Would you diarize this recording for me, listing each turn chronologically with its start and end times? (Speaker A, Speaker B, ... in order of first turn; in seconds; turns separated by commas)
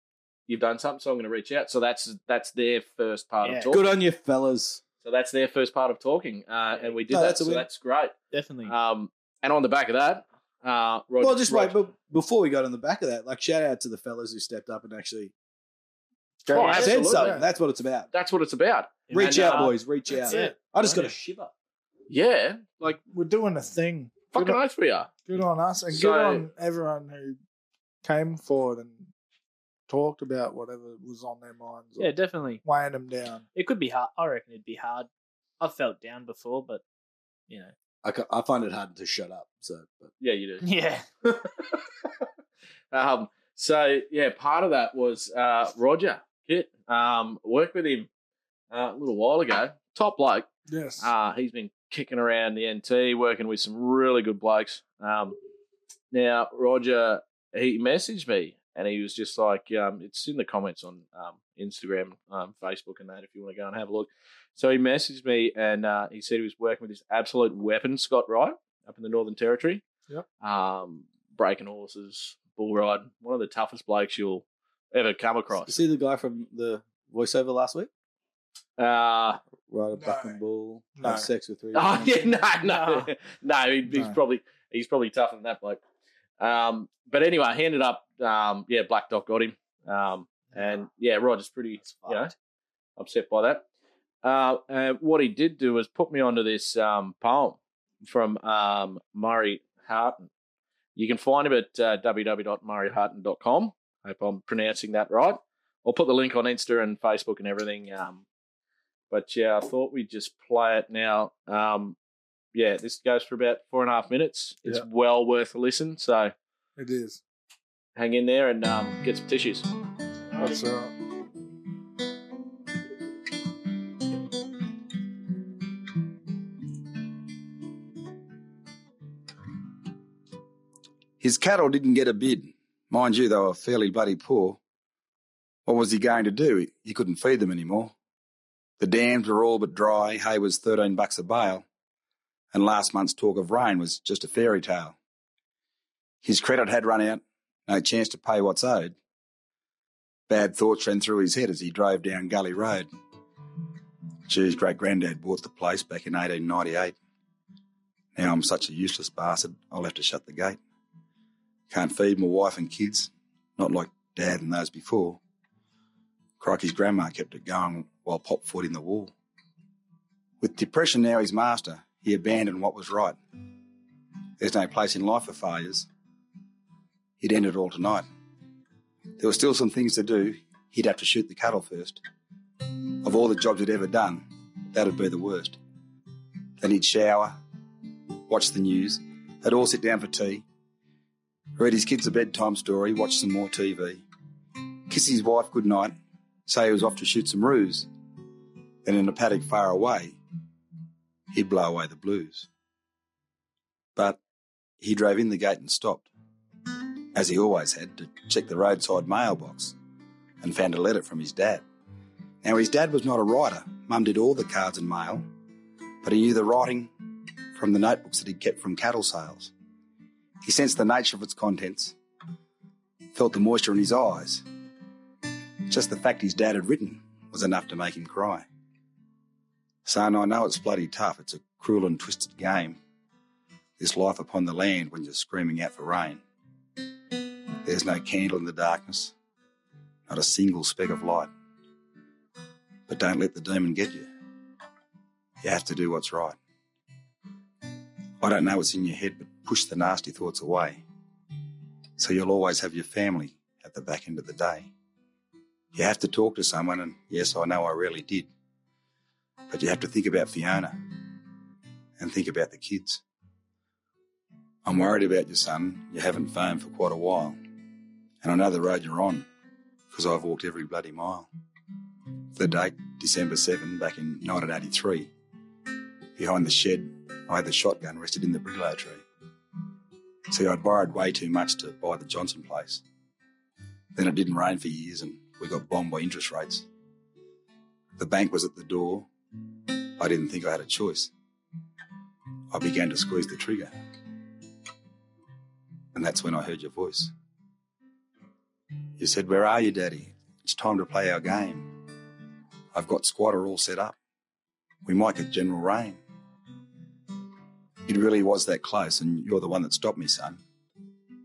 Speaker A: 0.5-3.9, Speaker B: 3.4-3.7, Speaker C: 3.7-4.8, Speaker A: 5.0-8.1, Speaker C: 7.1-7.7, Speaker B: 8.3-8.7, Speaker A: 8.7-11.8, Speaker C: 11.2-15.3, Speaker C: 16.5-18.1, Speaker A: 16.5-17.4, Speaker B: 16.5-17.2, Speaker D: 16.5-17.4, Speaker A: 18.1-19.7, Speaker B: 19.1-21.1, Speaker C: 19.1-21.5, Speaker D: 20.3-20.5, Speaker A: 22.1-23.0, Speaker D: 23.1-24.6, Speaker A: 24.3-25.1, Speaker D: 25.2-27.4, Speaker A: 25.9-26.4, Speaker D: 28.0-29.1, Speaker D: 29.9-32.1, Speaker B: 32.0-32.6, Speaker D: 32.6-33.4, Speaker B: 33.5-35.1, Speaker B: 35.6-36.8, Speaker B: 37.5-37.7, Speaker C: 38.0-40.1, Speaker A: 40.2-40.6, Speaker B: 40.6-41.0, Speaker A: 41.2-41.8, Speaker A: 42.9-48.1, Speaker A: 48.7-50.5, Speaker D: 50.7-51.1, Speaker A: 51.0-55.4, Speaker A: 56.1-69.8, Speaker A: 70.4-75.8, Speaker C: 75.6-77.9, Speaker A: 78.8-79.4, Speaker C: 79.7-82.1, Speaker D: 80.0-80.4, Speaker D: 81.0-81.3, Speaker A: 81.7-85.8, Speaker B: 82.6-83.1, Speaker A: 86.4-92.3, Speaker B: 91.8-92.3, Speaker A: 93.0-93.6, Speaker A: 94.2-100.3, Speaker A: 100.9-108.2, Speaker A: 109.1-112.0, Speaker A: 112.5-116.3, Speaker D: 116.8-117.2, Speaker A: 118.0-119.7, Speaker D: 120.3-120.9, Speaker E: 131.2-134.6, Speaker E: 135.7-137.9, Speaker E: 138.8-141.6, Speaker E: 142.5-144.9, Speaker E: 146.2-148.9, Speaker E: 150.3-152.9, Speaker E: 154.3-156.9, Speaker E: 158.1-160.6, Speaker E: 161.7-165.2, Speaker E: 166.4-169.1, Speaker E: 170.4-173.2, Speaker E: 174.4-175.9, Speaker E: 177.2-178.1, Speaker E: 179.2-182.0, Speaker E: 183.0-185.6, Speaker E: 186.6-187.3, Speaker E: 188.3-190.4, Speaker E: 191.6-194.0, Speaker E: 194.9-195.9, Speaker E: 196.5-197.9, Speaker E: 198.8-200.2, Speaker E: 201.3-202.5, Speaker E: 204.8-206.1, Speaker E: 207.1-209.7, Speaker E: 210.4-211.6, Speaker E: 212.4-215.2, Speaker E: 216.0-216.9, Speaker E: 217.5-219.5, Speaker E: 220.4-221.9, Speaker E: 223.1-224.4, Speaker E: 225.7-228.4, Speaker E: 229.8-232.8, Speaker E: 233.8-236.2, Speaker E: 237.6-239.1, Speaker E: 240.1-241.3, Speaker E: 242.9-244.1, Speaker E: 245.4-246.4, Speaker E: 248.2-250.8, Speaker E: 252.0-254.7, Speaker E: 255.7-258.3, Speaker E: 259.5-260.8, Speaker E: 262.0-263.0, Speaker E: 264.6-267.4, Speaker E: 268.2-269.2, Speaker E: 269.9-271.3, Speaker E: 272.3-275.1, Speaker E: 276.1-279.0, Speaker E: 280.3-282.8, Speaker E: 283.9-286.6, Speaker E: 288.0-289.1, Speaker E: 290.0-291.1, Speaker E: 292.5-293.7, Speaker E: 295.9-297.1, Speaker E: 299.0-301.7, Speaker E: 302.7-304.0, Speaker E: 304.8-306.0, Speaker E: 307.9-310.4